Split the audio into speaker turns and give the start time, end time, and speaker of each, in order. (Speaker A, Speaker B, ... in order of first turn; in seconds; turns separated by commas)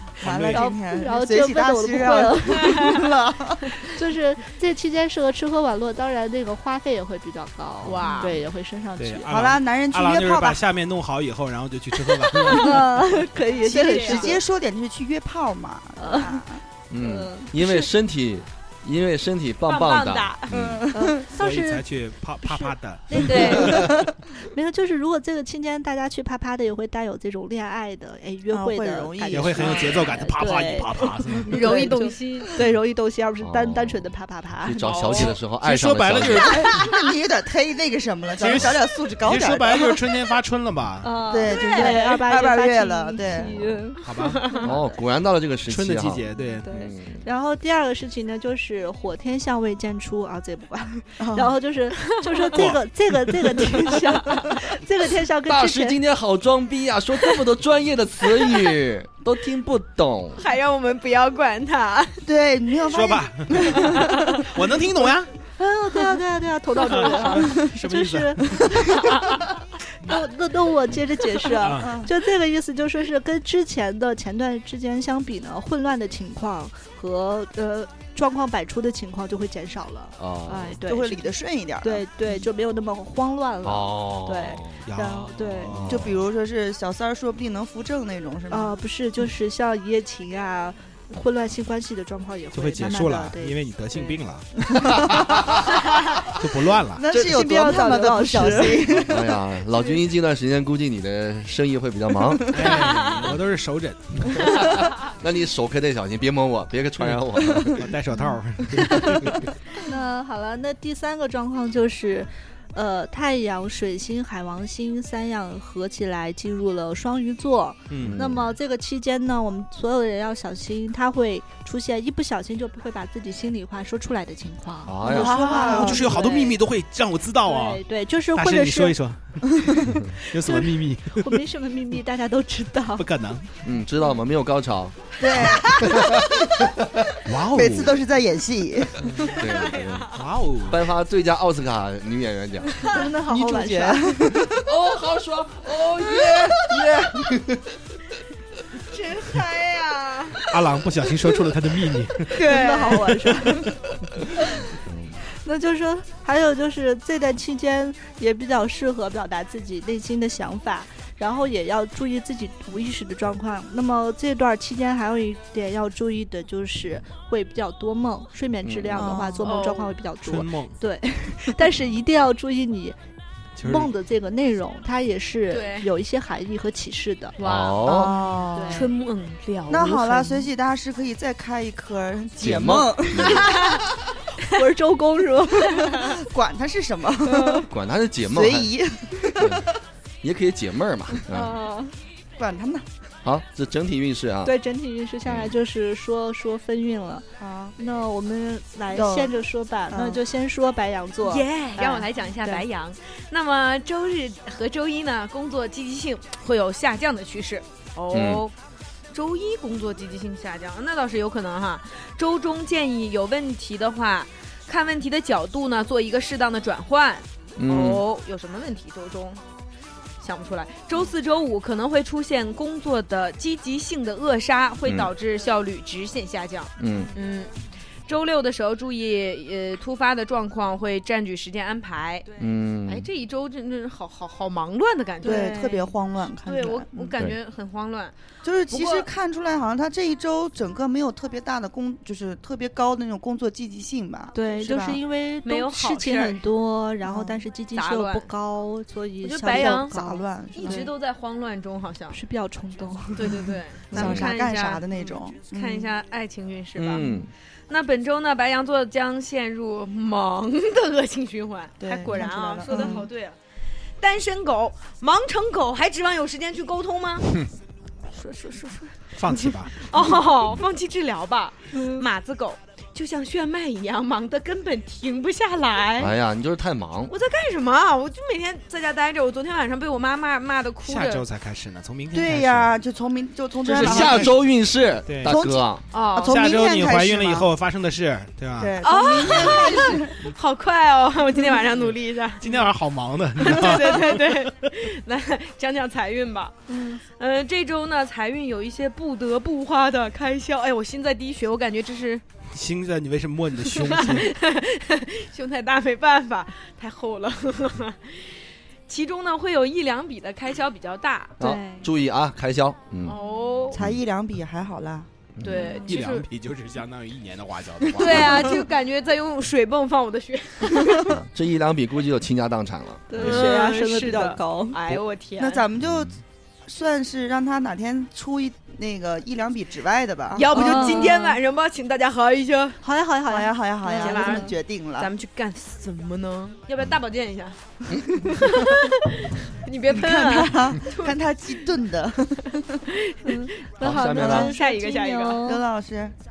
Speaker A: 0.2-0.7, Speaker B: 0.2-3.7, Speaker C: 0.5-2.9, Speaker C: 3.9-9.3, Speaker D: 7.8-8.4, Speaker A: 9.0-13.1, Speaker B: 9.3-10.6, Speaker C: 12.4-14.4, Speaker B: 13.6-16.6, Speaker D: 13.7-14.3, Speaker C: 16.0-16.4, Speaker E: 16.9-20.8, Speaker C: 17.0-17.9, Speaker D: 19.6-20.5, Speaker B: 20.5-21.2, Speaker C: 20.9-21.9, Speaker A: 21.3-23.9, Speaker C: 22.4-35.3, Speaker D: 23.2-23.9, Speaker B: 28.5-30.1, Speaker A: 29.3-31.7, Speaker D: 31.5-32.5, Speaker E: 33.4-34.1, Speaker E: 34.6-36.7, Speaker A: 34.8-36.8, Speaker B: 36.6-40.0, Speaker A: 38.4-41.2, Speaker C: 41.0-44.7, Speaker B: 41.3-43.8, Speaker D: 41.5-42.1, Speaker A: 44.0-44.4, Speaker E: 44.6-47.2, Speaker A: 45.7-46.7, Speaker C: 46.6-56.0, Speaker B: 51.2-51.5, Speaker A: 52.5-53.8, Speaker E: 55.5-60.4, Speaker D: 60.4-62.2, Speaker B: 62.2-64.4, Speaker A: 62.9-65.3, Speaker C: 65.6-69.0, Speaker A: 66.8-68.7, Speaker C: 70.0-85.8, Speaker A: 71.6-71.9, Speaker B: 71.8-72.1, Speaker E: 80.2-80.8, Speaker B: 80.8-82.0, Speaker E: 83.6-84.8, Speaker A: 84.8-86.1, Speaker E: 85.7-86.1, Speaker B: 85.9-88.8, Speaker C: 88.5-94.2, Speaker A: 92.5-94.5, Speaker B: 94.8-95.4, Speaker E: 95.1-95.6, Speaker A: 96.4-97.0, Speaker B: 97.0-99.2, Speaker C: 97.1-98.8, Speaker E: 99.0-102.8, Speaker A: 102.5-104.5, Speaker D: 102.9-103.2, Speaker E: 104.4-107.9, Speaker A: 107.0-109.4, Speaker C: 109.8-126.6, Speaker A: 117.9-118.2, Speaker E: 118.0-118.5, Speaker E: 124.8-125.4, Speaker B: 125.0-126.0, Speaker A: 125.3-127.8, Speaker C: 127.5-128.9, Speaker A: 128.3-131.4, Speaker C: 131.1-133.1, Speaker A: 132.9-133.5, Speaker E: 133.6-135.0, Speaker B: 135.2-136.5, Speaker E: 135.9-137.1, Speaker A: 137.2-138.0, Speaker B: 137.4-139.2, Speaker A: 139.0-139.3, Speaker E: 139.3-140.1, Speaker D: 139.4-140.2, Speaker A: 140.1-140.8, Speaker E: 140.6-142.9, Speaker C: 142.9-144.1, Speaker B: 143.3-144.7, Speaker E: 144.6-147.6, Speaker B: 146.5-147.3, Speaker D: 148.9-150.4, Speaker A: 150.5-152.5, Speaker D: 152.3-153.0, Speaker C: 152.3-153.7, Speaker E: 154.8-155.2, Speaker C: 155.4-173.0, Speaker E: 168.6-169.2, Speaker B: 168.9-169.4, Speaker D: 169.4-169.9, Speaker A: 170.2-170.8, Speaker A: 173.6-173.9, Speaker C: 173.6-177.3, Speaker D: 175.5-175.9, Speaker D: 177.4-178.1, Speaker E: 177.4-178.2, Speaker B: 177.9-178.9, Speaker C: 178.5-178.9, Speaker D: 178.7-180.5, Speaker B: 179.7-183.8, Speaker E: 182.4-183.6, Speaker C: 184.5-186.1, Speaker B: 186.0-187.7, Speaker C: 187.2-187.7, Speaker E: 187.7-188.7, Speaker B: 188.3-189.6, Speaker E: 189.4-189.7, Speaker E: 190.2-191.6, Speaker C: 191.3-191.9, Speaker B: 192.4-192.8, Speaker E: 193.2-194.5, Speaker C: 194.4-197.2, Speaker E: 195.2-195.5, Speaker B: 197.4-197.7, Speaker C: 197.8-202.6, Speaker B: 198.9-199.3, Speaker B: 199.9-200.2, Speaker D: 201.2-208.5, Speaker E: 208.1-208.4, Speaker D: 209.1-219.4, Speaker E: 217.6-218.0, Speaker D: 220.2-227.5, Speaker E: 224.8-225.1, Speaker E: 226.8-227.1, Speaker D: 228.1-232.3, Speaker E: 232.4-233.1, Speaker D: 232.8-238.1, Speaker C: 235.2-235.6, Speaker B: 235.2-237.1, Speaker B: 238.4-245.0, Speaker D: 238.7-239.1, Speaker C: 244.3-250.9, Speaker D: 245.4-246.5, Speaker B: 247.0-247.4, Speaker D: 247.7-248.3, Speaker D: 249.2-249.9, Speaker B: 249.5-250.8, Speaker D: 250.5-252.2, Speaker C: 252.1-253.5, Speaker D: 253.1-254.8, Speaker B: 253.9-255.9, Speaker E: 253.9-254.3, Speaker D: 255.5-257.1, Speaker E: 256.8-257.3, Speaker D: 257.7-263.4, Speaker B: 261.8-263.1, Speaker C: 262.7-263.0, Speaker D: 264.0-267.3, Speaker D: 268.2-268.9, Speaker A: 269.1-269.8, Speaker D: 269.8-276.1, Speaker C: 271.7-272.0, Speaker E: 276.0-277.1, Speaker D: 277.1-281.2, Speaker A: 280.8-282.8, Speaker B: 282.1-284.4, Speaker A: 283.6-284.3, Speaker E: 283.7-285.8, Speaker A: 285.1-285.4, Speaker B: 285.2-287.5, Speaker D: 285.9-286.4, Speaker A: 286.3-288.8, Speaker B: 288.6-290.2, Speaker D: 288.8-292.6, Speaker A: 292.4-294.5, Speaker D: 293.4-302.2, Speaker C: 296.7-297.0, Speaker A: 302.5-304.3, Speaker D: 303.7-311.4, Speaker E: 311.4-313.2, Speaker C: 311.4-311.9, Speaker D: 313.0-313.8, Speaker B: 313.7-315.1, Speaker E: 313.7-314.0, Speaker E: 315.4-315.7, Speaker D: 315.4-316.3, Speaker A: 315.8-318.6, Speaker D: 317.9-321.1, Speaker E: 321.1-323.4, Speaker C: 323.1-324.8, Speaker D: 323.2-325.6, Speaker B: 325.4-331.1, Speaker E: 325.8-326.1, Speaker D: 330.3-332.8, Speaker C: 330.5-331.4, Speaker C: 332.8-334.5, Speaker B: 333.2-335.1, Speaker D: 333.9-341.2, Speaker B: 339.9-342.8, Speaker D: 343.0-345.4, Speaker C: 343.2-345.6, Speaker E: 343.8-344.5, Speaker B: 344.2-344.5, Speaker B: 345.4-346.1